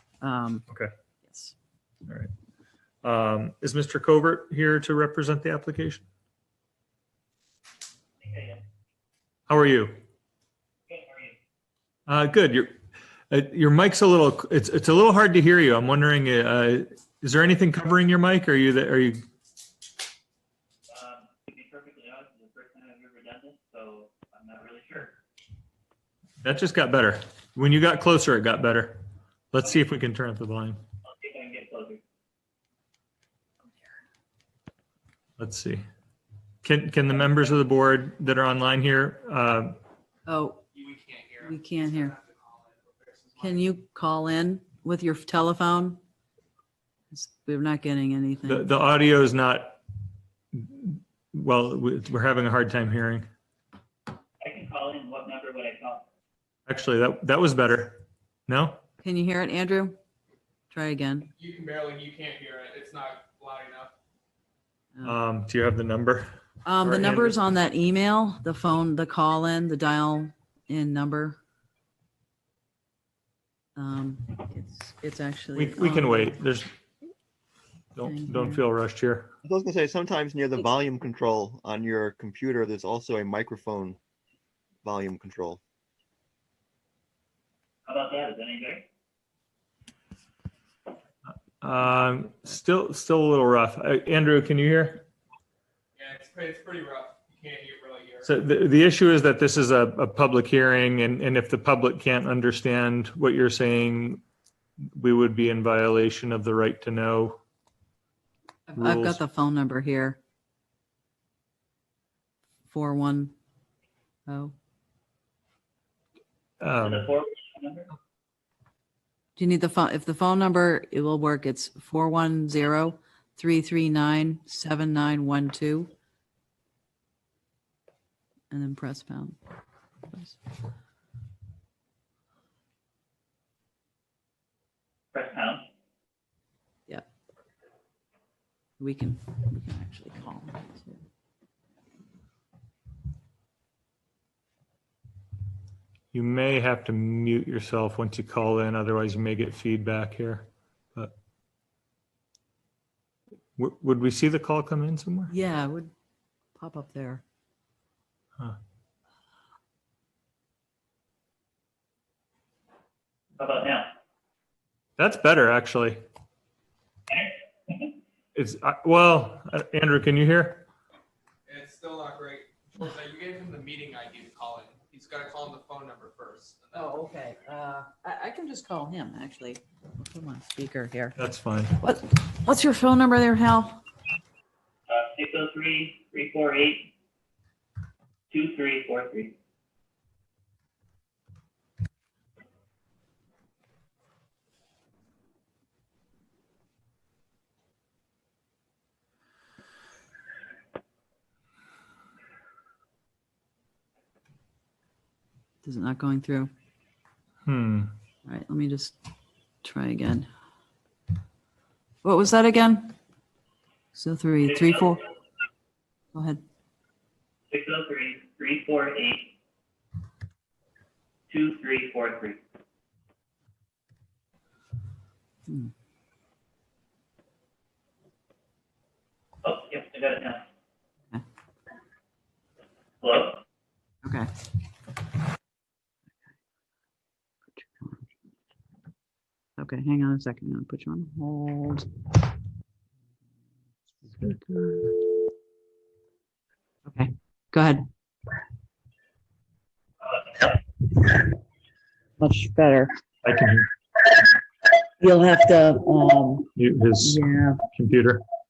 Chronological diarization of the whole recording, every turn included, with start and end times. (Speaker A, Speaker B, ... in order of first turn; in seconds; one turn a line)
Speaker A: 0.2-0.7
Speaker A: 1.2-1.5
Speaker B: 3.0-6.1
Speaker C: 8.2-8.6
Speaker B: 9.5-10.0
Speaker C: 10.9-11.3
Speaker B: 12.1-12.7
Speaker B: 13.3-19.2
Speaker C: 20.9-25.1
Speaker B: 26.4-30.8
Speaker C: 31.1-32.0
Speaker B: 35.4-35.9
Speaker B: 36.6-39.8
Speaker A: 40.3-40.6
Speaker D: 40.7-43.7
Speaker A: 41.4-42.1
Speaker A: 43.4-46.0
Speaker A: 47.1-48.7
Speaker B: 48.5-49.8
Speaker B: 50.5-53.3
Speaker C: 54.4-56.0
Speaker B: 56.7-58.8
Speaker A: 59.0-60.0
Speaker A: 60.7-61.3
Speaker D: 61.4-63.9
Speaker B: 65.0-67.4
Speaker A: 66.7-71.4
Speaker A: 73.8-76.4
Speaker B: 75.5-76.7
Speaker B: 78.0-79.3
Speaker A: 78.0-78.7
Speaker E: 79.4-84.0
Speaker E: 84.8-85.6
Speaker C: 87.9-88.8
Speaker B: 91.3-95.0
Speaker D: 96.0-98.3
Speaker B: 98.2-104.2
Speaker B: 105.0-107.4
Speaker A: 108.7-110.2
Speaker B: 108.8-109.2
Speaker A: 112.7-113.3
Speaker A: 114.3-114.5
Speaker B: 116.6-117.1
Speaker C: 116.8-117.9
Speaker A: 119.4-125.9
Speaker A: 128.5-129.4
Speaker A: 130.1-130.4
Speaker C: 135.1-135.6
Speaker A: 138.8-141.0
Speaker B: 146.1-151.1
Speaker B: 153.6-155.3
Speaker A: 155.3-155.9
Speaker A: 156.6-157.2
Speaker C: 163.4-163.9
Speaker B: 165.0-166.0
Speaker C: 167.2-167.9
Speaker B: 168.3-170.7
Speaker D: 171.5-177.0
Speaker A: 176.7-181.2
Speaker B: 181.2-181.8
Speaker A: 181.8-183.8
Speaker C: 184.9-186.9
Speaker C: 188.3-189.3
Speaker A: 205.6-206.5
Speaker B: 207.5-207.9
Speaker A: 208.3-209.0
Speaker A: 209.6-210.3
Speaker A: 212.0-212.9
Speaker A: 213.9-215.0
Speaker A: 216.1-216.4
Speaker C: 217.5-219.3
Speaker C: 221.3-222.4
Speaker A: 225.5-225.7
Speaker C: 229.4-230.4
Speaker C: 233.0-233.4
Speaker A: 234.0-234.3
Speaker A: 237.6-238.0
Speaker A: 239.6-241.9
Speaker A: 244.1-244.9
Speaker A: 246.8-247.9
Speaker A: 251.0-251.3
Speaker A: 252.2-252.9
Speaker B: 253.2-253.7
Speaker A: 255.0-257.7
Speaker B: 256.6-258.2